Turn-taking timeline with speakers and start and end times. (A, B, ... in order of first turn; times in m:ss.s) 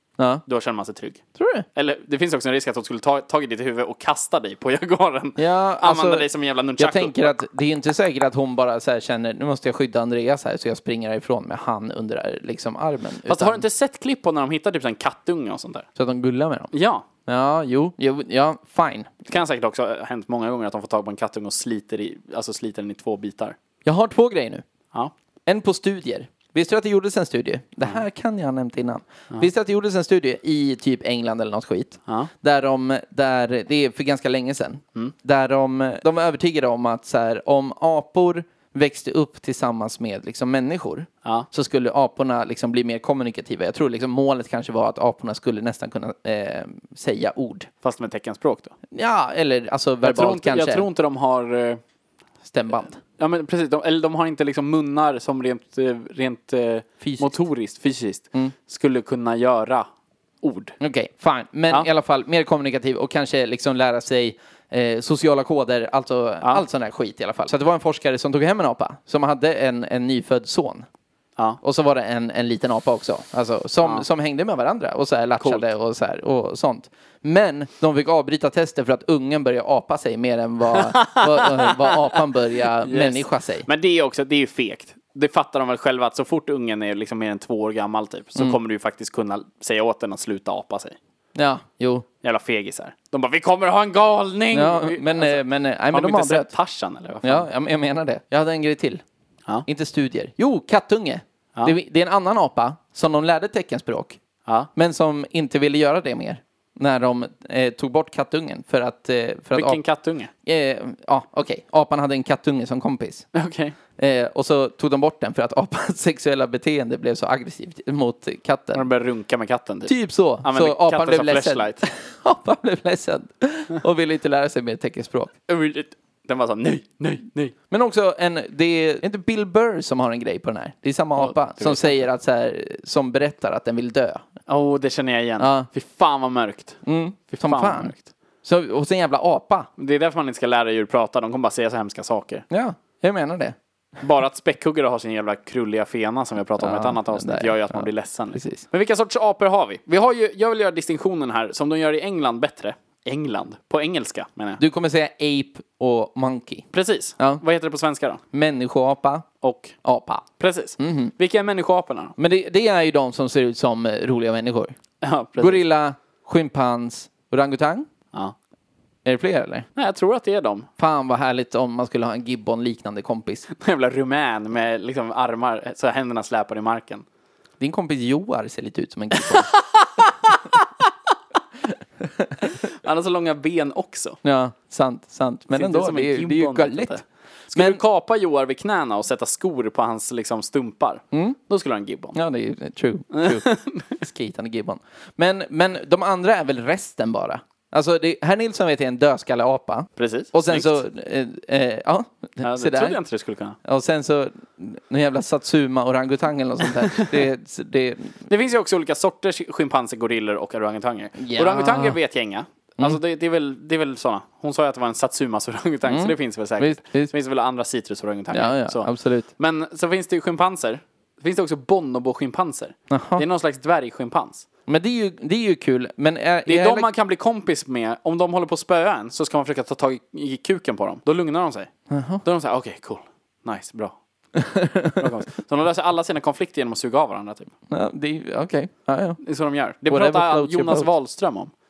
0:00.2-0:00.4 A
0:00.5-0:01.2 B
0:01.4-0:01.7 A
0:01.8-0:07.4 B
0:05.4-0:06.3 A
0:06.8-0:13.6 A
0:13.3-0:15.9 B
0:16.0-0:16.7 A
0:16.7-0:17.1 B
0:17.3-0:19.2 A
0:19.3-0:23.6 B
0:23.8-0:24.6 A
0:25.5-0:47.7 A
0:47.8-0:48.8 B
0:48.9-0:50.9 A
0:50.0-0:51.8 B
0:52.4-0:53.0 A
0:53.2-0:59.9 B
0:57.0-0:57.4 A
1:00.4-1:00.8 B
1:00.8-1:10.9 A
1:11.6-1:23.7 A
1:20.8-1:31.0 B
1:31.4-1:32.1 A
1:32.2-1:37.5 B
1:34.5-1:36.5 A
1:37.2-1:39.0 A
1:39.7-1:44.2 A
1:44.7-1:49.8 A
1:49.5-1:50.3 B
1:50.4-1:53.3 A
1:53.3-1:53.8 B
1:54.0-1:58.9 A
1:58.7-2:01.8 B
1:59.9-2:05.3 A
2:05.5-2:07.5 B
2:07.7-2:14.3 A
2:11.2-2:12.1 B
2:14.5-2:16.8 B
2:15.4-2:15.7 A
2:16.8-2:19.7 A
2:17.3-2:18.0 B
2:19.8-2:22.5 B
2:22.5-2:23.6 A
2:24.0-2:34.6 B
2:26.6-2:28.6 A
2:34.6-2:36.6 A
2:36.7-2:38.2 B
2:38.3-2:39.3 A
2:39.4-2:39.8 B
2:39.8-2:40.2 A
2:40.4-2:42.2 B
2:40.8-2:41.1 A
2:42.2-2:44.8 A
2:45.0-2:45.6 B
2:45.4-2:47.9 A
2:49.0-2:49.7 A
2:49.8-2:50.7 B
2:50.8-2:53.5 A
2:53.6-2:57.0 B
2:57.6-2:59.5 A
2:59.3-3:00.6 B
3:02.1-3:02.4 A
3:02.4-3:04.2 B
3:04.2-3:07.0 A
3:05.5-3:12.2 B
3:07.5-3:07.8 A
3:11.1-3:11.4 A
3:12.2-3:23.0 A
3:13.1-3:14.0 B
3:20.0-3:20.8 B
3:22.4-3:23.6 B
3:23.6-3:28.2 A
3:26.9-3:27.1 B
3:28.3-3:44.5 B
3:31.2-3:32.0 A
3:35.9-3:37.1 A
3:38.3-3:39.3 A
3:42.9-3:43.2 A
3:44.7-3:46.9 A
3:46.5-3:51.7 B
3:51.9-3:52.2 A
3:52.2-3:54.0 B
3:54.4-3:55.1 A
3:55.0-3:57.5 B
3:57.7-3:59.2 A
3:59.2-4:01.5 B
3:59.9-4:00.9 A